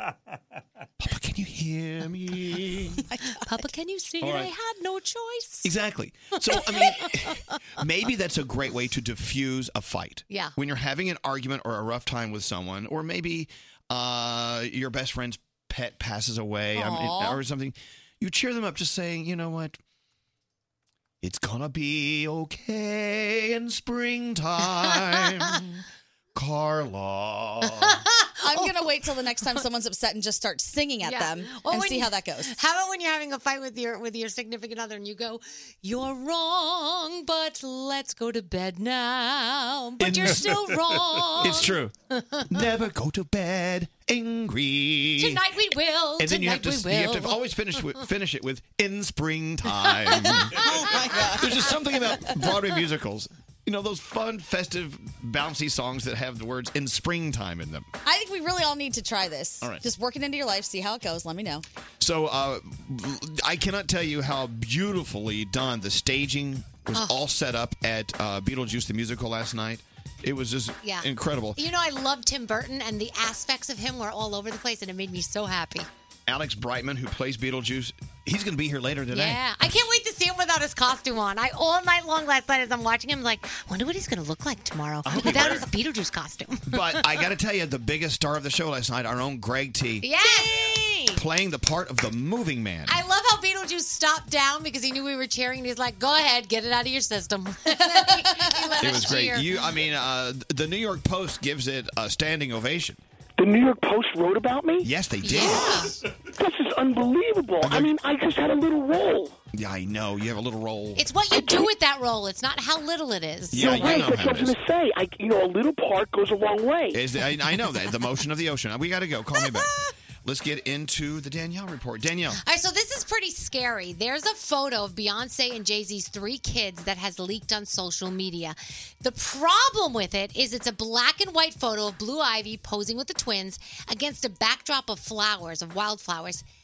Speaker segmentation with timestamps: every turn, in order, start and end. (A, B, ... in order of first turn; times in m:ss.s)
0:01.0-0:03.0 A
0:03.0-0:03.6 B
0:03.4-0:05.7 C
0:04.2-0:04.5 A
0:05.6-0:19.8 A
0:06.5-0:07.3 C
0:10.3-0:10.5 C
0:16.7-0:17.4 B
0:21.2-0:25.6 A
0:26.3-0:28.0 A
0:27.6-0:29.6 C
0:28.4-0:32.6 B
0:31.0-0:42.6 C
0:40.0-0:40.6 A
0:41.4-0:41.9 A
0:42.5-0:45.4 A
0:45.2-0:48.0 C
0:46.2-0:50.7 A
0:49.7-0:51.3 C
0:50.5-0:52.5 B
0:51.3-0:57.9 A
0:58.0-1:01.6 B
1:02.0-1:11.6 A
1:06.9-1:07.2 C
1:10.8-1:15.9 C
1:16.3-1:19.4 A
1:19.1-1:27.1 C
1:25.0-1:25.7 A
1:26.7-1:30.1 A
1:30.0-1:31.2 C
1:31.1-1:33.0 A
1:32.8-1:39.6 C
1:37.9-1:38.9 B
1:38.8-1:43.0 A
1:43.4-1:44.9 D
1:44.8-1:45.9 A
1:45.2-1:45.9 C
1:46.3-1:49.3 D
1:47.6-1:47.9 A
1:49.5-1:51.0 A
1:51.0-1:54.0 C
1:51.3-1:51.7 D
1:53.5-1:54.6 A
1:53.6-1:57.0 D
1:56.9-1:59.7 A
1:59.3-1:59.7 B
2:00.2-2:02.4 A
2:02.4-2:16.4 C